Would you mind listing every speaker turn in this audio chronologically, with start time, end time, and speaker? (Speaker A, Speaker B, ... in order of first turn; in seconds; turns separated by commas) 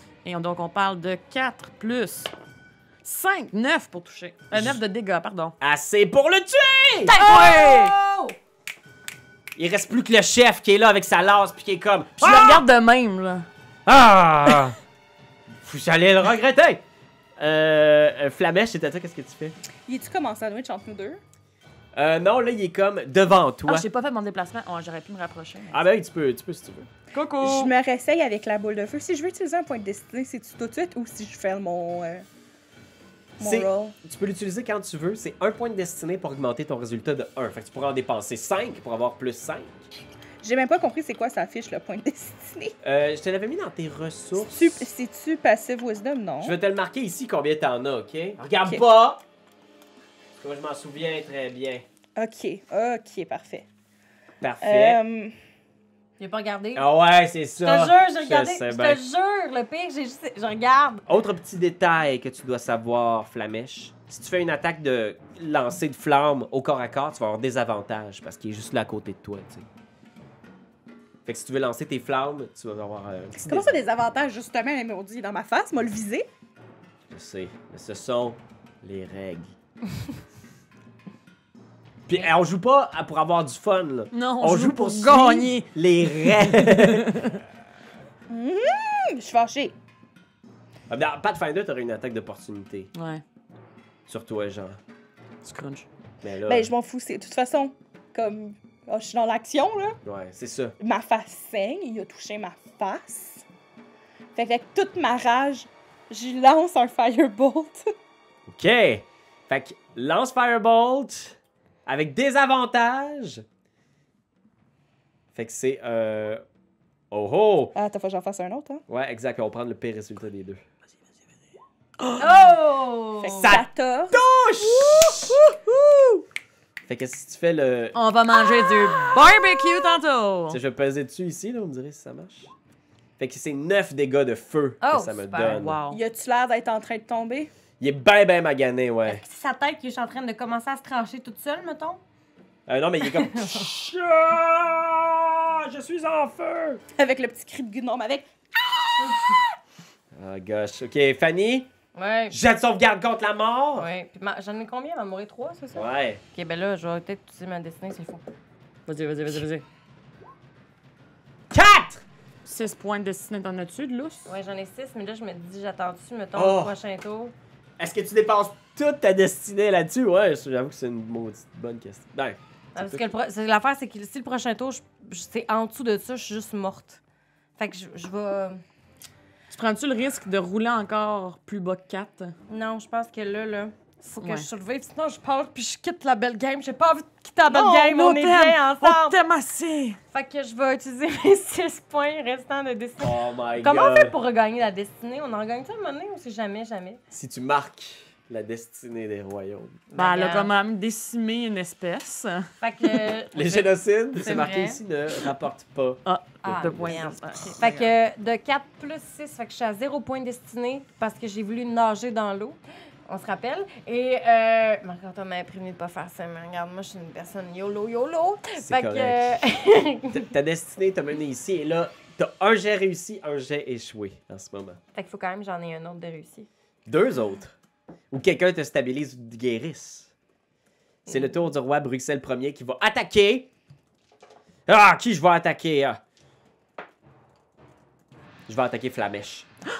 Speaker A: 0.2-2.3, Speaker A: 3.0-5.5, Speaker B: 4.5-4.8, Speaker B: 5.6-7.2, Speaker A: 7.0-7.9, Speaker C: 7.1-8.3, Speaker B: 9.6-12.7, Speaker A: 12.2-13.5, Speaker B: 13.8-14.8, Speaker B: 15.6-16.8, Speaker B: 17.4-19.6, Speaker D: 19.9-21.2, Speaker B: 21.9-23.9, Speaker A: 23.7-25.8, Speaker B: 25.7-26.9, Speaker A: 27.1-27.7, Speaker D: 27.4-32.2, Speaker D: 33.4-33.9, Speaker B: 33.4-39.8, Speaker D: 40.4-42.8, Speaker B: 42.8-44.9, Speaker D: 44.4-46.6, Speaker B: 46.4-49.2, Speaker B: 50.4-51.9, Speaker D: 52.1-53.6, Speaker B: 54.4-55.0, Speaker D: 54.6-55.3, Speaker C: 56.2-56.9, Speaker B: 56.7-59.0, Speaker C: 57.6-61.0, Speaker B: 61.0-69.7, Speaker B: 71.2-73.8, Speaker D: 73.4-76.3, Speaker B: 77.1-79.5, Speaker B: 82.1-87.2, Speaker A: 84.1-87.4, Speaker D: 88.3-89.8, Speaker B: 90.9-92.9, Speaker A: 92.9-93.2, Speaker B: 94.1-94.8, Speaker A: 95.4-95.9, Speaker B: 96.2-96.7, Speaker D: 96.5-100.0, Speaker B: 100.0-100.8, Speaker D: 100.8-103.4, Speaker D: 104.3-107.8, Speaker B: 108.5-113.4, Speaker B: 115.3-116.4, Speaker B: 117.1-117.7, Speaker D: 117.7-118.8, Speaker B: 118.9-120.6, Speaker A: 122.0-122.5, Speaker C: 122.2-123.5, Speaker D: 123.2-124.2, Speaker B: 123.3-125.4, Speaker B: 126.8-128.0, Speaker A: 127.9-130.6, Speaker B: 130.5-132.5, Speaker B: 133.2-135.8, Speaker C: 134.8-135.6, Speaker A: 135.4-136.0, Speaker D: 135.9-137.5, Speaker B: 137.8-139.2, Speaker C: 139.1-142.0, Speaker B: 142.7-146.8, Speaker C: 143.0-143.7, Speaker D: 146.9-148.3, Speaker B: 150.1-151.7, Speaker C: 151.9-152.4, Speaker B: 152.3-153.9, Speaker C: 153.8-158.2, Speaker B: 155.7-156.2, Speaker A: 158.9-159.6, Speaker B: 161.5-162.0, Speaker A: 162.4-164.3, Speaker C: 164.3-167.3, Speaker B: 166.3-166.7, Speaker B: 167.8-173.0, Speaker C: 172.8-177.0, Speaker C: 177.6-178.6, Speaker A: 179.5-182.3, Speaker C: 182.5-189.2, Speaker A: 184.2-184.5, Speaker A: 187.5-190.0, Speaker C: 190.1-197.0, Speaker B: 193.0-194.1, Speaker B: 197.1-199.8, Speaker C: 199.9-200.5, Speaker A: 199.9-203.0, Speaker C: 202.6-204.8, Speaker B: 203.3-206.0, Speaker A: 206.0-207.9, Speaker C: 206.4-220.3, Speaker B: 218.6-219.4, Speaker B: 220.1-224.8, Speaker C: 224.9-226.5, Speaker B: 226.9-227.6, Speaker B: 228.1-230.1, Speaker C: 231.1-231.3, Speaker B: 231.1-233.5, Speaker B: 234.7-236.0, Speaker B: 238.5-239.5